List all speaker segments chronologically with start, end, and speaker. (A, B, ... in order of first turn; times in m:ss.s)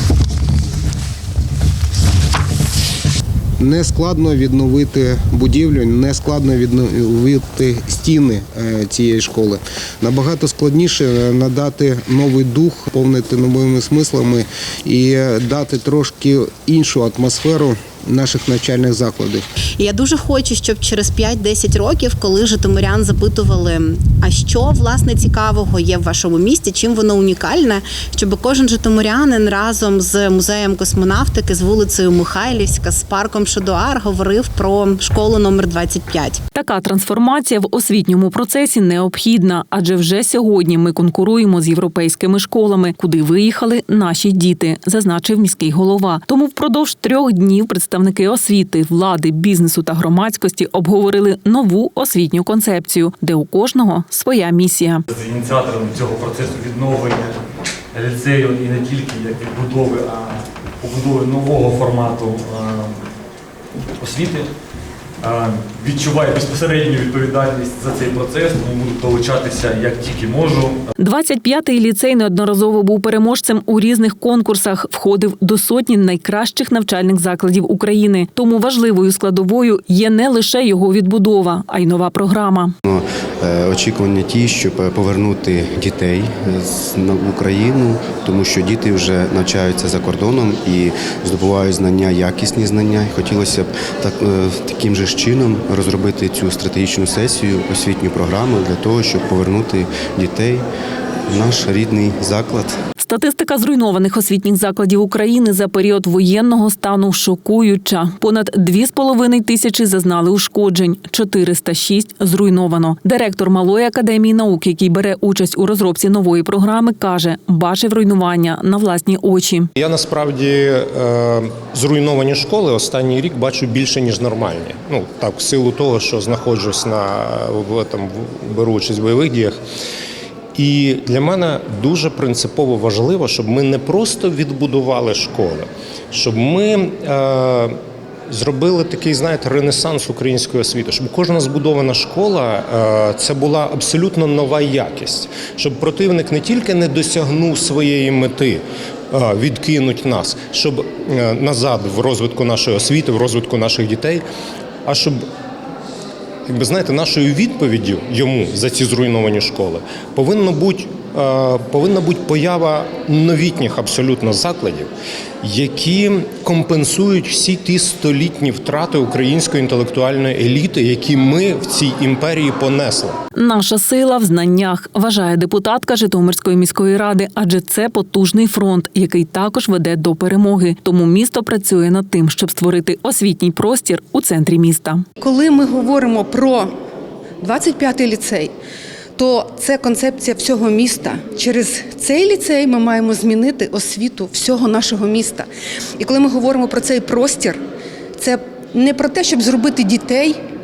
0:03.6-0:19.4 A
0:19.8-0:36.4 B
0:36.5-0:55.0 C
0:55.1-0:57.4 D
0:57.9-1:03.0 D
1:04.0-1:04.5 D
1:05.2-1:10.9 D
1:11.0-1:22.7 C
1:22.8-1:40.7 E
1:41.3-1:42.8 E
1:43.0-1:59.7 C
1:59.8-2:09.6 F
2:10.6-2:17.8 F
2:18.3-2:34.2 F
2:34.8-2:35.2 F
2:36.5-2:44.9 F
2:45.4-2:53.2 F
2:53.4-3:05.0 C
3:05.2-3:06.7 G
3:07.4-3:08.5 G
3:09.2-3:15.5 G
3:16.0-3:17.6 G
3:18.2-3:20.4 G